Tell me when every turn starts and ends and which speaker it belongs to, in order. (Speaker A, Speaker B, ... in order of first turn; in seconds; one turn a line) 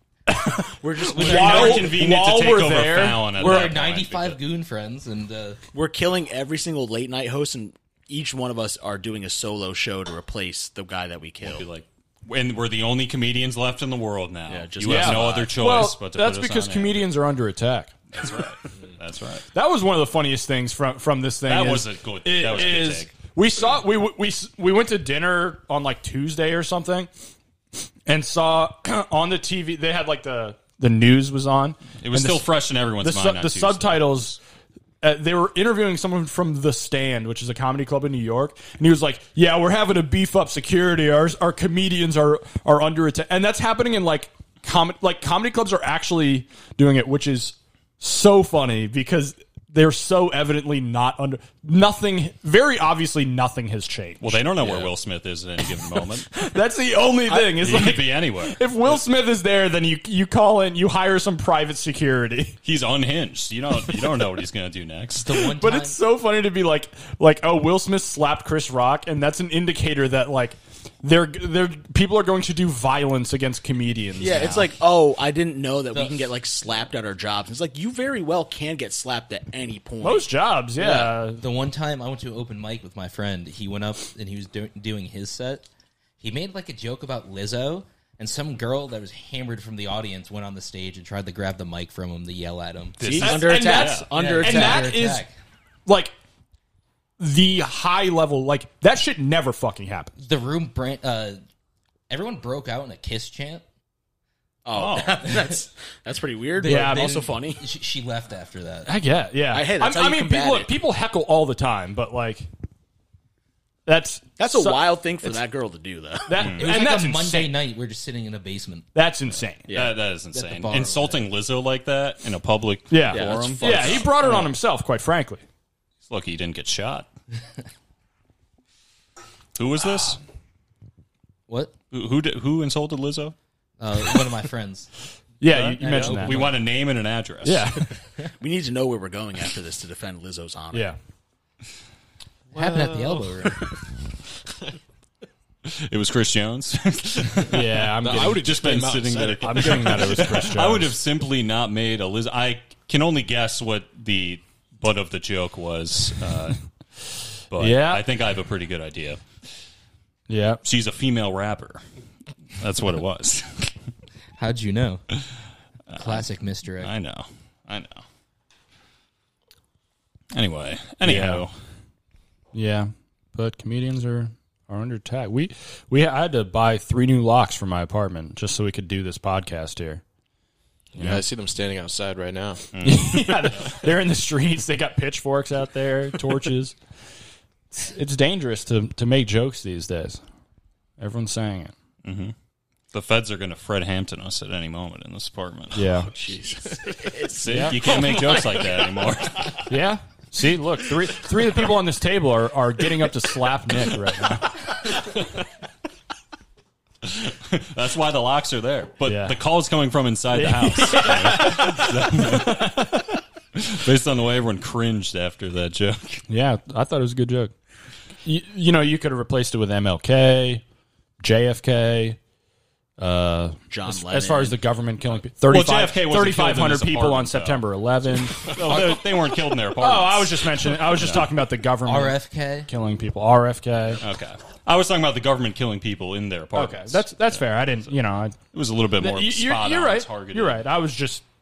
Speaker A: 0.3-3.6
Speaker B: 0.8-1.9
Speaker C: 1.1-1.9
Speaker D: 1.2-4.4
Speaker C: 3.4-5.6
Speaker B: 5.7-11.7
Speaker D: 11.4-17.1
Speaker B: 14.5-15.5
Speaker A: 14.8-18.0
Speaker D: 18.1-19.5
Speaker A: 19.5-27.1
Speaker D: 21.5-23.1
Speaker A: 28.1-32.5
Speaker D: 32.0-34.1
Speaker A: 33.0-34.4
Speaker A: 35.0-54.9
Speaker D: 54.2-56.3
Speaker A: 56.3-62.6
Speaker D: 57.3-59.0
Speaker D: 62.6-65.4
Speaker C: 65.2-66.0
Speaker A: 65.5-74.7
Speaker B: 74.2-80.3
Speaker C: 75.9-76.3
Speaker A: 80.0-81.4
Speaker B: 80.8-81.1
Speaker C: 81.4-85.7
Speaker C: 86.2-93.3
Speaker D: 93.0-94.1
Speaker B: 93.0-94.9
Speaker A: 93.0-95.3
Speaker C: 94.2-95.3
Speaker A: 95.9-96.1
Speaker A: 97.2-100.2
Speaker C: 100.2-101.4
Speaker C: 102.1-103.6
Speaker B: 104.7-107.6
Speaker D: 104.7-105.2
Speaker C: 105.2-105.5
Speaker C: 106.6-108.9
Speaker A: 106.6-107.1
Speaker A: 108.9-112.5
Speaker B: 109.5-110.7
Speaker A: 113.9-115.4
Speaker B: 114.4-116.5
Speaker A: 116.3-117.5
Speaker D: 116.4-116.7
Speaker C: 116.6-118.9
Speaker A: 119.0-119.7
Speaker B: 119.7-119.9
Speaker D: 119.7-124.2
Speaker C: 120.3-121.3
Speaker A: 122.9-125.4
Speaker B: 123.1-124.5
Speaker D: 126.1-127.1
Speaker D: 129.6-130.2
Speaker C: 131.5-131.7
Speaker D: 131.9-133.3
Speaker C: 133.8-134.9
Speaker A: 135.4-136.5
Speaker D: 135.5-137.7
Speaker C: 135.5-136.6
Speaker A: 137.4-137.9
Speaker B: 138.4-140.9
Speaker C: 142.5-143.6
Speaker E: 142.5-143.5
Speaker D: 145.7-156.6
Speaker A: 147.5-148.5
Speaker E: 148.0-149.8
Speaker A: 149.4-150.9
Speaker B: 149.6-150.0
Speaker D: 157.5-159.2
Speaker A: 157.6-158.0
Speaker A: 160.3-160.6
Speaker D: 160.6-161.8
Speaker D: 162.6-163.7
Speaker C: 164.4-165.0
Speaker D: 165.9-166.2
Speaker C: 165.9-166.9
Speaker D: 166.8-168.0
Speaker D: 170.3-171.5
Speaker A: 171.0-171.5
Speaker A: 172.5-180.0
Speaker E: 180.9-182.7
Speaker A: 181.0-181.2
Speaker D: 182.7-183.7
Speaker A: 182.8-186.8
Speaker A: 187.7-190.2
Speaker A: 191.0-191.7
Speaker D: 192.0-192.3
Speaker D: 192.9-195.9
Speaker A: 195.7-196.1
Speaker E: 196.1-197.0
Speaker B: 196.2-198.9
Speaker D: 197.3-199.7
Speaker A: 197.4-197.8
Speaker A: 199.7-204.6
Speaker D: 207.0-216.2
Speaker A: 209.1-209.4
Speaker A: 210.3-213.0
Speaker A: 216.3-217.5
Speaker A: 218.2-220.6
Speaker A: 221.2-222.2
Speaker A: 223.0-229.0
Speaker B: 223.7-225.2
Speaker D: 225.4-231.3
Speaker A: 229.8-234.0
Speaker C: 231.8-232.7
Speaker D: 234.0-237.7
Speaker A: 236.5-238.4
Speaker D: 238.5-240.6
Speaker A: 239.0-241.2